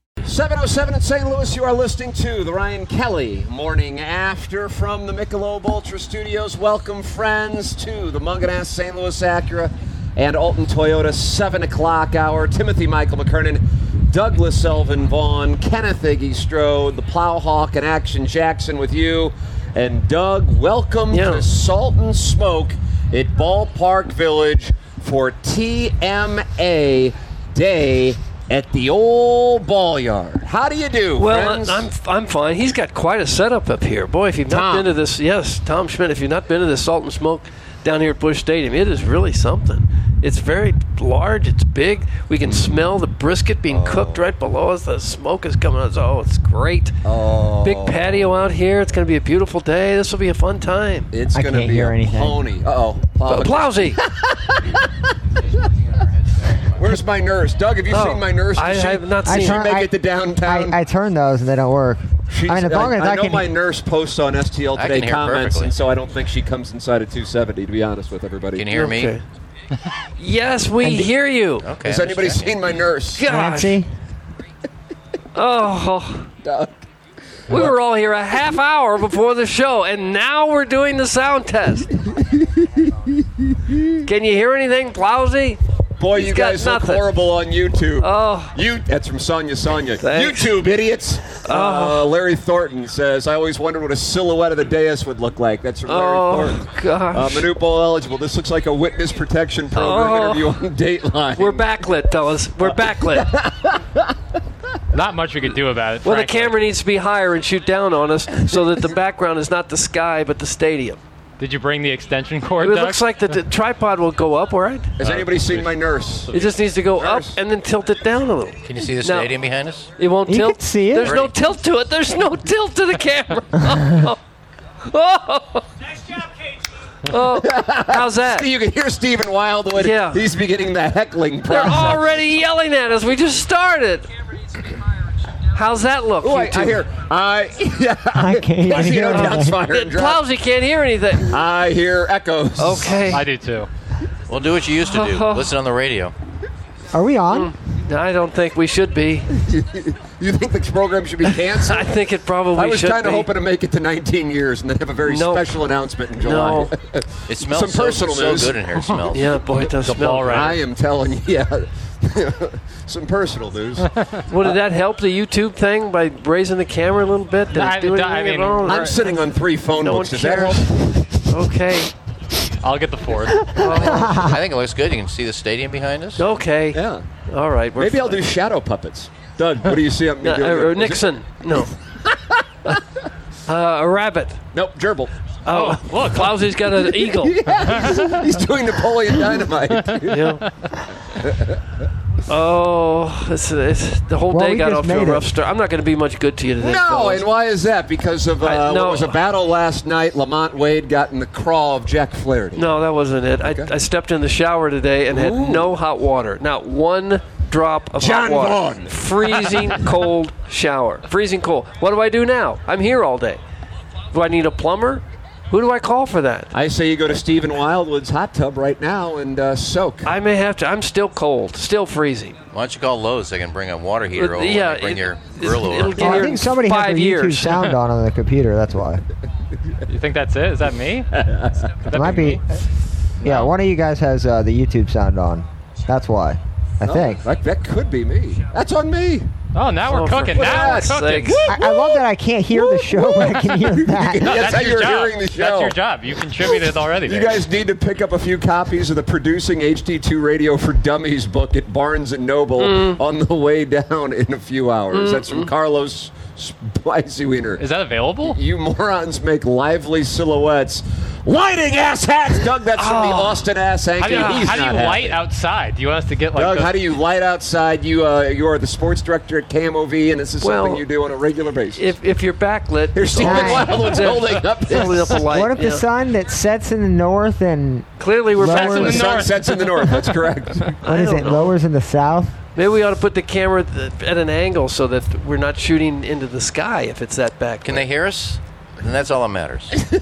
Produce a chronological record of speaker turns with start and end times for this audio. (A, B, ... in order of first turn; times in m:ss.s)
0:00.2-0:31.9 A
0:21.1-0:21.4 B
0:31.2-0:47.0 B
0:34.5-0:34.9 A
0:42.4-0:42.8 A
0:43.7-0:44.2 A
0:47.0-0:48.4 A
0:47.6-0:51.1 B
0:51.1-0:55.1 A
0:51.3-0:52.4 C
0:53.2-0:54.0 B
0:56.7-1:00.8 A
0:57.9-0:59.6 B
0:59.2-1:03.5 C
1:02.3-1:08.7 A
1:04.8-1:05.7 D
1:08.6-1:09.2 D
1:08.7-1:09.2 B
1:10.2-1:11.6 B
1:10.8-1:11.1 C
1:11.6-1:12.6 D
1:11.8-1:13.3 A
1:13.2-1:13.8 B
1:13.2-1:13.9 C
1:15.3-1:16.3 B
1:16.4-1:16.8 A
1:17.5-1:21.9 B
1:22.0-1:24.0 A
1:24.0-1:25.6 B
1:26.0-1:41.8 A
1:26.1-1:27.1 B
1:28.0-1:28.5 B
1:30.0-1:30.5 B
1:31.4-1:32.1 B
1:35.8-1:37.5 B
1:39.7-1:40.6 B
1:41.3-1:43.4 B
1:42.6-1:44.2 A
1:44.9-1:46.6 E
1:46.0-1:51.0 B
1:51.4-1:53.3 E
1:52.6-1:55.0 B
1:55.0-1:57.4 A
1:55.0-1:55.6 E
1:56.3-1:59.3 B
1:58.6-1:59.9 D
2:00.0-2:04.2 B
2:00.3-2:01.2 C
2:01.0-2:01.3 D
2:04.8-2:05.7 B
2:07.0-2:08.5 B
2:07.4-2:12.2 A
2:09.8-2:10.2 B
2:11.5-2:14.1 B
2:15.5-2:16.8 B
2:16.2-2:20.2 A
2:18.1-2:19.6 C
2:19.1-2:21.4 B
2:21.2-2:23.2 A
2:22.6-2:23.2 B
2:23.1-2:23.7 E
2:24.3-2:26.1 D
2:24.8-2:25.5 B
2:26.9-2:27.5 C
2:27.3-2:29.3 B
2:29.3-2:38.7 A
2:31.5-2:33.3 B
2:35.0-2:35.4 B
2:36.2-2:36.7 B
2:37.3-2:39.4 D
2:39.1-2:40.6 B
2:39.8-2:40.6 E
2:40.2-2:44.6 A
2:43.9-2:44.2 E
2:44.3-2:49.0 B
2:47.5-2:49.0 E
2:48.6-2:51.2 A
2:49.7-2:51.9 B
2:52.6-2:53.5 E
2:53.5-2:54.2 B
2:53.5-2:54.4 C
2:54.1-2:56.2 D
2:56.2-2:58.2 B
2:56.7-2:57.0 A
2:57.8-3:02.7 A
3:00.2-3:01.7 B
3:03.5-3:04.4 B
3:04.5-3:05.1 A
3:05.4-3:07.4 B
3:05.5-3:06.4 E
3:06.6-3:10.4 A
3:07.7-3:08.1 E
3:10.0-3:10.4 B
3:11.1-3:11.6 A
3:12.3-3:17.3 B
3:14.3-3:15.2 C
3:16.6-3:22.7 A
3:18.4-3:19.2 B
3:22.5-3:33.4 B
3:23.4-3:23.7 A
3:25.1-3:25.7 A
3:28.0-3:29.9 A
3:34.1-3:36.5 B
3:36.5-3:40.2 A
3:40.0-3:42.4 B
3:42.5-3:46.3 D
3:44.2-3:47.6 B
3:46.0-3:49.0 C
3:49.9-3:51.1 E
3:51.1-3:52.0 A
3:51.9-3:52.4 E
3:51.9-3:52.5 C
3:53.2-3:57.2 C
3:53.2-3:53.5 E
3:56.8-3:59.3 A
3:59.5-4:01.4 E
3:59.8-4:01.4 B
4:00.2-4:05.8 A
4:01.5-4:04.4 C
4:04.2-4:07.4 E
4:06.4-4:17.6 A
4:12.6-4:13.0 B
4:14.9-4:15.5 B
4:17.6-4:18.4 E
4:18.2-4:25.2 A
4:22.8-4:23.4 B
4:24.0-4:26.7 E
4:24.0-4:24.5 B
4:26.3-4:31.9 A
4:30.4-4:30.8 B
4:31.8-4:35.8 B
4:32.9-4:35.4 A
4:33.2-4:33.8 C
4:35.2-4:39.0 C
4:38.0-4:39.0 B
4:38.4-4:40.1 E
4:38.7-4:40.8 A
4:40.8-4:41.5 B
4:40.8-4:42.4 C
4:42.5-4:47.8 B
4:47.6-4:49.8 D